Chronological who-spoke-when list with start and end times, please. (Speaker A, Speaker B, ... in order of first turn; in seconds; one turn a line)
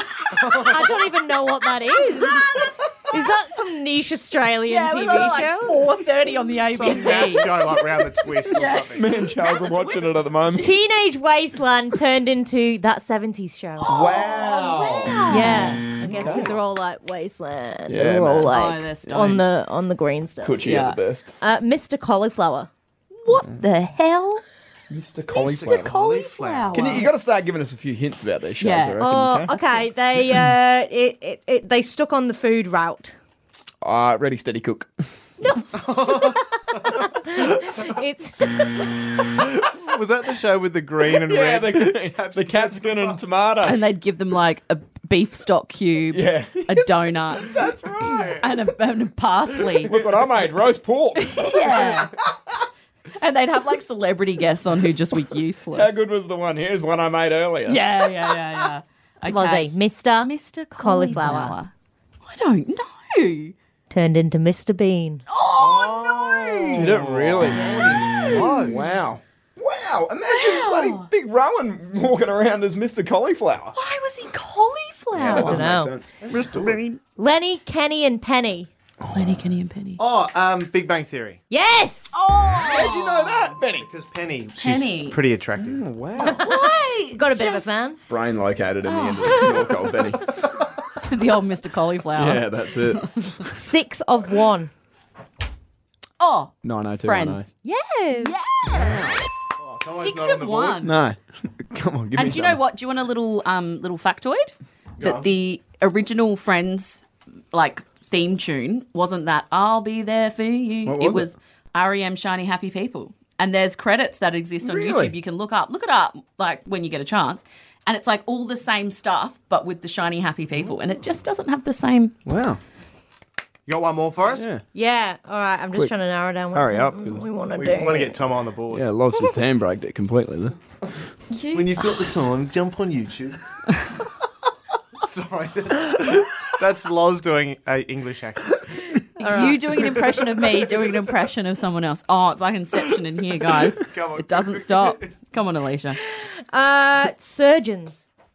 Speaker A: 0.3-0.9
Speaker B: 0.6-5.8
Speaker C: 2.1-2.7
Speaker C: 4.7-10.1
Speaker A: 6.6-9.1
Speaker D: 8.9-10.7
Speaker B: 10.6-14.2
Speaker C: 13.8-16.0
Speaker D: 13.9-16.6
Speaker B: 15.3-20.7
Speaker D: 17.9-18.5
Speaker C: 18.5-19.4
Speaker D: 20.4-21.3
Speaker C: 20.6-21.0
Speaker B: 21.4-22.7
Speaker C: 23.2-24.4
Speaker D: 24.9-25.9
Speaker C: 25.3-27.1
Speaker A: 25.3-27.1
Speaker D: 26.7-29.5
Speaker C: 28.6-29.0
Speaker B: 29.0-33.1
Speaker D: 33.8-34.9
Speaker C: 35.4-35.7
Speaker A: 35.7-37.0
Speaker B: 36.9-39.1
Speaker A: 39.4-43.2
Speaker D: 41.1-43.8
Speaker C: 43.6-47.6
Speaker D: 46.1-48.4
Speaker A: 48.0-48.5
Speaker C: 48.1-49.9
Speaker D: 49.8-52.0
Speaker C: 51.2-52.1
Speaker C: 53.2-56.0
Speaker D: 55.7-57.9
Speaker C: 57.7-61.7
Speaker B: 59.3-61.5
Speaker C: 62.2-63.5
Speaker B: 63.9-65.2
Speaker C: 65.3-68.6
Speaker A: 65.6-69.0
Speaker D: 66.7-73.8
Speaker C: 70.3-71.1
Speaker C: 73.7-75.6
Speaker D: 75.1-76.1
Speaker B: 75.2-75.9
Speaker A: 76.2-76.8
Speaker B: 77.2-78.7
Speaker D: 79.0-79.5
Speaker C: 79.1-80.0
Speaker A: 80.0-81.4
Speaker B: 81.5-82.2
Speaker C: 82.1-83.5
Speaker D: 82.6-83.9
Speaker A: 83.7-85.8
Speaker C: 84.6-85.2
Speaker D: 85.5-86.4
Speaker B: 86.2-88.0
Speaker C: 86.3-87.8
Speaker D: 88.1-90.3
Speaker C: 88.8-89.9
Speaker C: 91.0-93.4
Speaker D: 92.2-93.1
Speaker B: 93.4-94.7
Speaker C: 96.2-97.5
Speaker D: 96.6-97.5
Speaker B: 97.6-98.3
Speaker C: 98.1-99.2
Speaker D: 98.7-99.2
Speaker A: 99.6-100.8
Speaker C: 99.9-101.0
Speaker D: 100.8-102.6
Speaker C: 102.1-122.1
Speaker A: 105.0-105.2
Speaker D: 110.8-111.3
Speaker D: 114.6-115.1
Speaker D: 122.2-122.6
Speaker A: 123.7-124.5
Speaker D: 124.3-124.6
Speaker B: 124.7-128.2
Speaker D: 126.5-127.3
Speaker A: 127.5-128.8
Speaker D: 128.7-130.6
Speaker C: 131.3-131.9
Speaker A: 131.5-133.4
Speaker A: 135.0-138.9
Speaker C: 139.2-146.0
Speaker B: 139.2-139.6
Speaker A: 139.8-140.2
Speaker A: 143.8-145.1
Speaker B: 146.1-148.1